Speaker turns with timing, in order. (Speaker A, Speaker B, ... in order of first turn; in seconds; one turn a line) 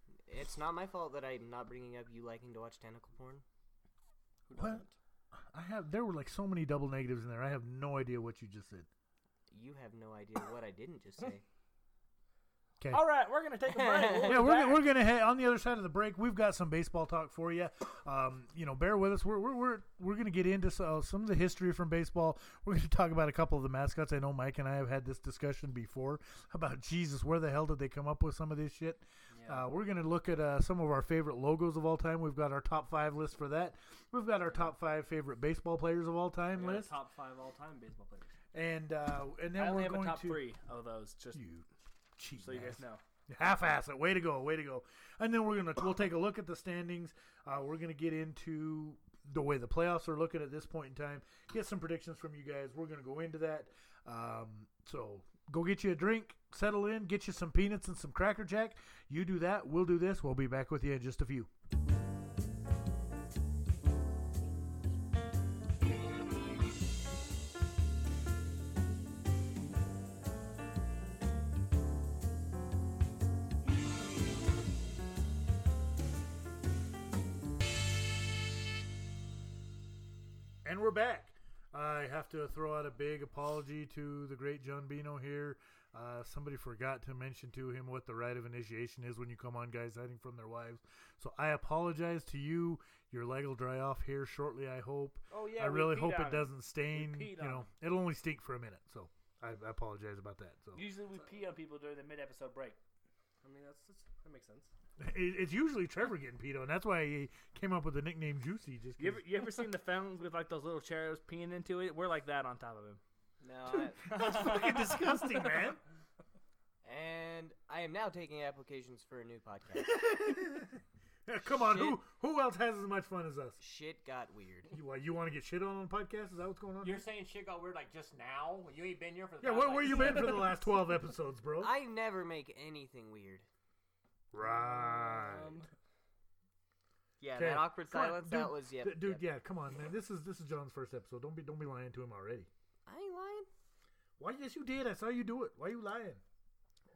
Speaker A: 0.3-3.4
Speaker B: 4.5-4.9
Speaker C: 4.5-4.8
Speaker C: 5.3-8.9
Speaker A: 9.5-11.4
Speaker D: 12.9-14.9
Speaker A: 13.7-14.4
Speaker C: 14.2-36.9
Speaker B: 29.3-29.7
Speaker B: 36.5-38.4
Speaker C: 38.5-40.5
Speaker D: 39.5-41.4
Speaker C: 41.3-61.5
Speaker D: 42.4-43.0
Speaker C: 80.6-100.9
Speaker D: 95.3-97.7
Speaker D: 100.7-102.8
Speaker B: 103.4-104.7
Speaker C: 105.0-109.2
Speaker D: 109.0-113.0
Speaker A: 113.4-114.0
Speaker C: 113.7-115.8
Speaker D: 114.1-115.0
Speaker A: 116.8-120.0
Speaker C: 119.8-123.6
Speaker A: 121.5-122.0
Speaker A: 123.6-124.7
Speaker C: 124.7-127.0
Speaker E: 126.8-130.5
Speaker C: 129.4-131.7
Speaker A: 131.6-133.4
Speaker C: 134.3-135.6
Speaker B: 134.4-135.7
Speaker A: 137.2-139.2
Speaker C: 137.3-142.5
Speaker A: 142.8-143.5
Speaker C: 144.2-146.2